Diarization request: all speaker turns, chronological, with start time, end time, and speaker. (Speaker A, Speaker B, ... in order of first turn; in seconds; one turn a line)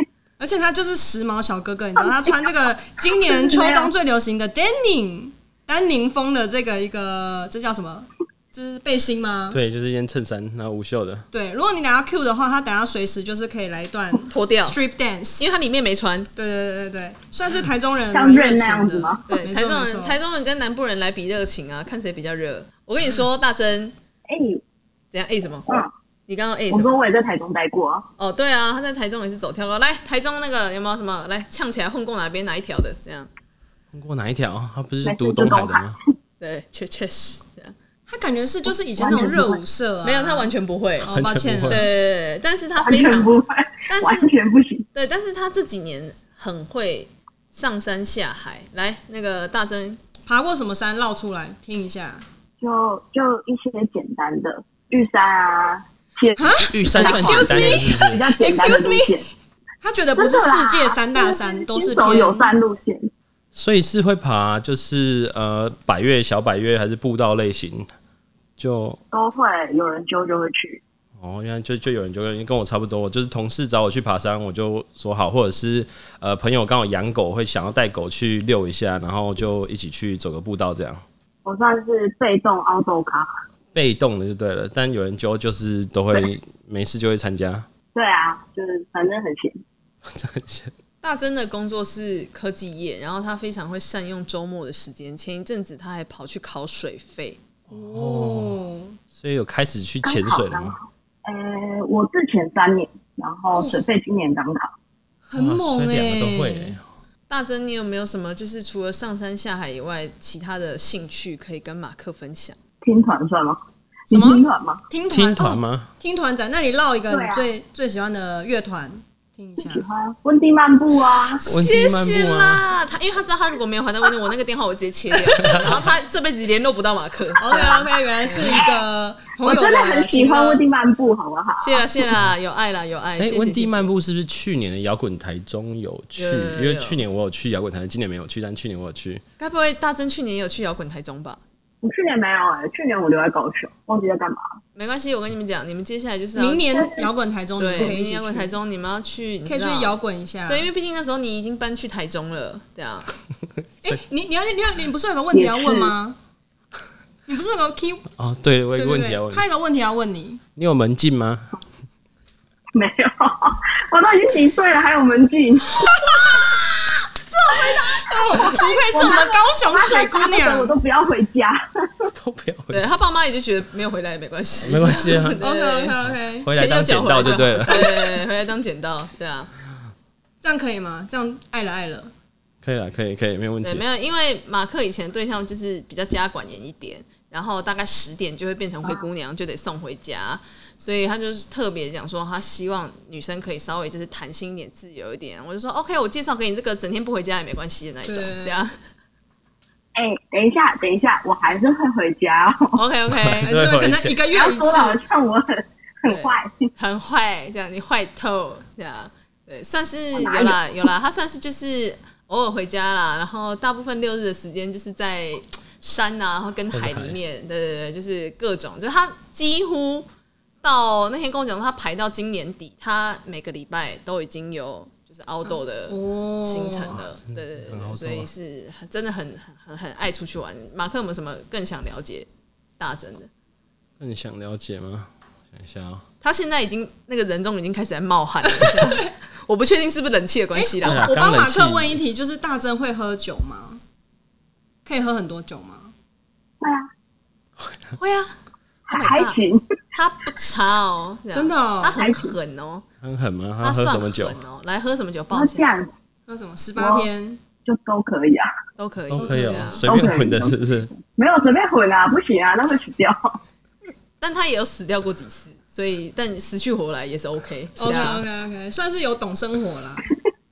Speaker A: 0.4-9.6
Speaker B: 2.0-2.4
Speaker B: 3.2-3.9
Speaker C: 9.5-11.2
Speaker A: 11.3-15.5
Speaker D: 14.2-14.8
Speaker D: 15.4-16.3
Speaker A: 16.4-20.2
Speaker B: 18.1-19.2
Speaker D: 19.3-23.9
Speaker B: 24.3-24.6
Speaker D: 25.1-25.7
Speaker D: 26.3-26.9
Speaker B: 26.7-28.1
Speaker D: 28.2-33.3
Speaker C: 33.9-36.0
Speaker B: 35.0-36.0
Speaker D: 36.4-37.7
Speaker A: 38.1-40.5
Speaker B: 39.0-39.6
Speaker D: 40.0-41.1
Speaker A: 41.0-41.9
Speaker C: 41.0-41.9
Speaker D: 41.7-43.3
Speaker B: 42.8-44.8
Speaker D: 43.9-44.3
Speaker D: 44.9-50.0
Speaker A: 50.2-52.2
Speaker B: 52.6-59.2
Speaker A: 56.4-59.2
Speaker C: 56.7-58.2
Speaker A: 59.8-62.5
Speaker B: 60.1-63.1
Speaker C: 63.5-67.9
Speaker C: 68.6-69.0
Speaker B: 69.1-70.8
Speaker C: 71.2-81.0
Speaker B: 81.4-83.3
Speaker C: 83.7-87.7
Speaker B: 87.9-89.6
Speaker C: 90.0-90.7
Speaker D: 91.0-97.4
Speaker C: 97.7-98.6
Speaker A: 97.7-99.0
Speaker C: 99.1-100.8
Speaker B: 100.0-104.7
Speaker A: 105.3-106.8
Speaker C: 105.3-106.8
Speaker D: 107.3-112.6
Speaker B: 112.8-114.8
Speaker A: 114.1-119.8
Speaker C: 115.1-115.9
Speaker B: 117.1-117.5
Speaker B: 119.6-121.4
Speaker D: 121.3-128.6
Speaker C: 121.5-122.7
Speaker C: 125.4-125.8
Speaker A: 127.4-130.6
Speaker B: 128.4-128.8
Speaker B: 129.4-131.9
Speaker D: 131.6-133.9
Speaker C: 133.2-139.2
Speaker D: 136.2-137.0
Speaker D: 139.4-141.4
Speaker B: 141.8-144.4
Speaker D: 144.7-146.9
Speaker A: 146.3-148.6
Speaker D: 147.6-149.9
Speaker A: 149.4-150.7
Speaker D: 150.5-153.1
Speaker A: 153.8-156.2
Speaker B: 155.3-155.9
Speaker A: 157.3-158.1
Speaker C: 158.2-159.4
Speaker A: 158.8-160.4
Speaker C: 160.6-161.5
Speaker B: 162.7-166.3
Speaker A: 165.7-166.7
Speaker A: 167.4-170.7
Speaker D: 168.3-168.6
Speaker B: 168.3-172.1
Speaker C: 172.1-172.9
Speaker D: 172.7-175.9
Speaker C: 174.6-175.4
Speaker A: 175.4-176.5
Speaker C: 176.3-178.2
Speaker D: 176.5-179.5
Speaker A: 180.4-182.1
Speaker C: 182.6-183.8
Speaker D: 183.6-198.7
Speaker A: 198.1-198.6
Speaker B: 199.9-202.8
Speaker D: 202.7-203.7
Speaker C: 203.1-204.2
Speaker A: 203.4-205.0
Speaker B: 204.3-206.6
Speaker D: 206.1-220.1
Speaker B: 210.1-210.6
Speaker C: 216.7-217.2
Speaker D: 220.6-232.3
Speaker A: 225.9-227.0
Speaker C: 227.2-228.3
Speaker D: 232.8-233.3
Speaker C: 234.0-236.0
Speaker D: 236.2-241.1
Speaker A: 238.5-239.1
Speaker A: 240.5-243.8
Speaker C: 240.8-242.0
Speaker A: 244.8-245.9
Speaker B: 246.6-246.9
Speaker D: 248.0-248.3
Speaker B: 248.9-249.6
Speaker D: 248.9-249.4
Speaker D: 249.9-252.8
Speaker A: 251.3-252.0
Speaker B: 252.0-252.3
Speaker C: 253.0-254.4
Speaker D: 253.6-255.7
Speaker B: 255.3-255.9
Speaker A: 256.3-257.4
Speaker B: 256.8-257.1
Speaker B: 257.6-258.5
Speaker D: 258.8-259.8
Speaker C: 259.1-260.9
Speaker A: 259.2-259.8
Speaker B: 259.8-263.4
Speaker D: 264.2-268.3
Speaker A: 267.8-270.1